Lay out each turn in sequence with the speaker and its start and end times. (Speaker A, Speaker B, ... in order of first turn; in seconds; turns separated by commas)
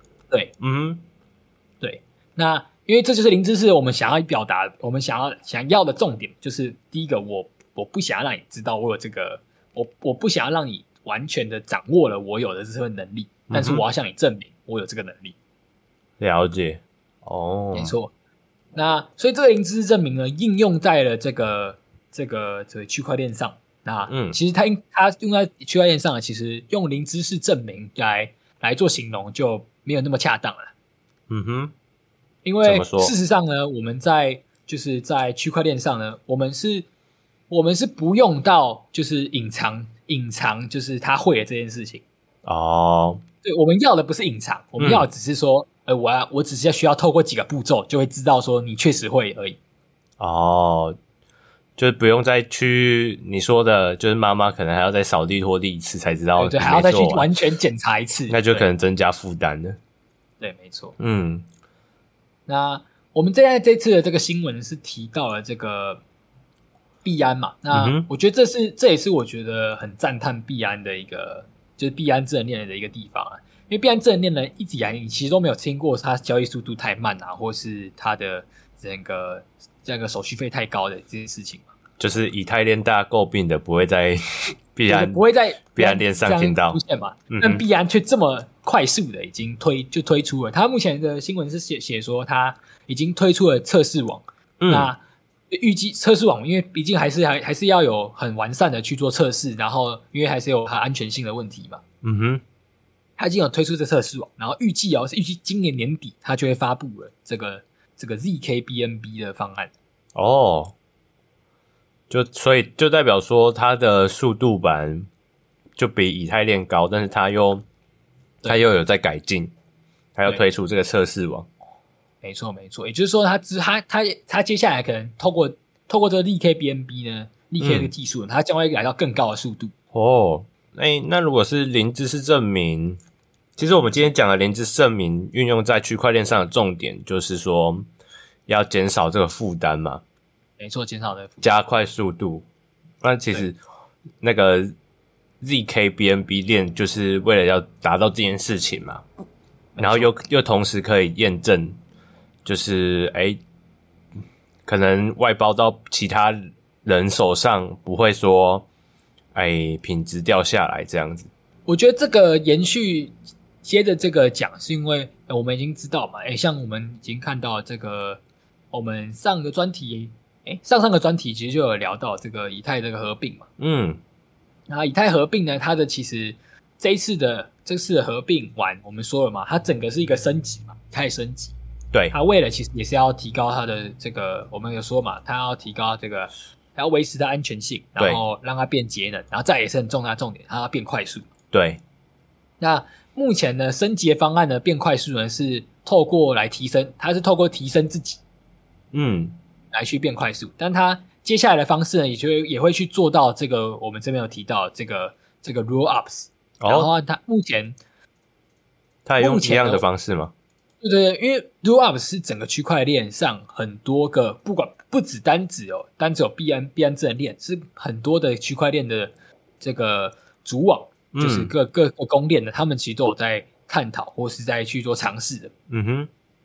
Speaker A: 0.6-1.0, Speaker B: 1.8-15.4, Speaker A: 13.5-13.8, Speaker A: 16.2-17.9, Speaker B: 17.7-18.1, Speaker B: 18.8-30.7, Speaker A: 24.1-24.4, Speaker A: 31.3-31.7, Speaker B: 32.4-36.9, Speaker A: 32.6-33.1, Speaker B: 37.5-42.0, Speaker A: 42.4-43.2, Speaker B: 43.4-49.6, Speaker A: 44.8-45.1, Speaker A: 50.2-51.0, Speaker A: 51.8-57.3, Speaker B: 56.4-58.7, Speaker A: 58.3-59.8, Speaker B: 60.4-61.0, Speaker A: 61.0-61.5, Speaker B: 62.5-66.0, Speaker B: 67.0-81.7, Speaker A: 67.7-68.1, Speaker A: 82.0-87.6, Speaker B: 84.9-95.0, Speaker A: 94.6-94.9, Speaker B: 95.5-101.8, Speaker A: 102.0-102.4, Speaker B: 103.2-109.7, Speaker A: 110.1-110.7, Speaker A: 112.1-115.1, Speaker A: 115.8-117.6, Speaker A: 118.5-119.5, Speaker A: 120.2-121.5, Speaker B: 122.2-129.7, Speaker A: 127.6-127.9, Speaker A: 129.9-133.0, Speaker A: 133.6-137.9, Speaker A: 138.5-140.0, Speaker B: 140.6-141.4, Speaker A: 141.4-142.4, Speaker A: 143.0-143.6, Speaker A: 144.2-144.7, Speaker A: 145.4-149.0, Speaker B: 149.8-150.1, Speaker A: 149.8-151.8, Speaker A: 152.4-153.4, Speaker A: 154.7-158.7, Speaker A: 159.3-161.3, Speaker B: 161.7-168.2, Speaker B: 168.7-173.5, Speaker A: 173.6-174.0, Speaker B: 174.7-181.6, Speaker B: 182.1-191.3, Speaker A: 191.5-191.8, Speaker B: 192.6-198.2, Speaker A: 198.9-199.4, Speaker B: 199.7-207.8, Speaker A: 206.6-206.9, Speaker A: 209.1-210.3, Speaker B: 209.2-209.9, Speaker B: 210.8-225.5, Speaker A: 221.1-221.5, Speaker A: 225.7-226.1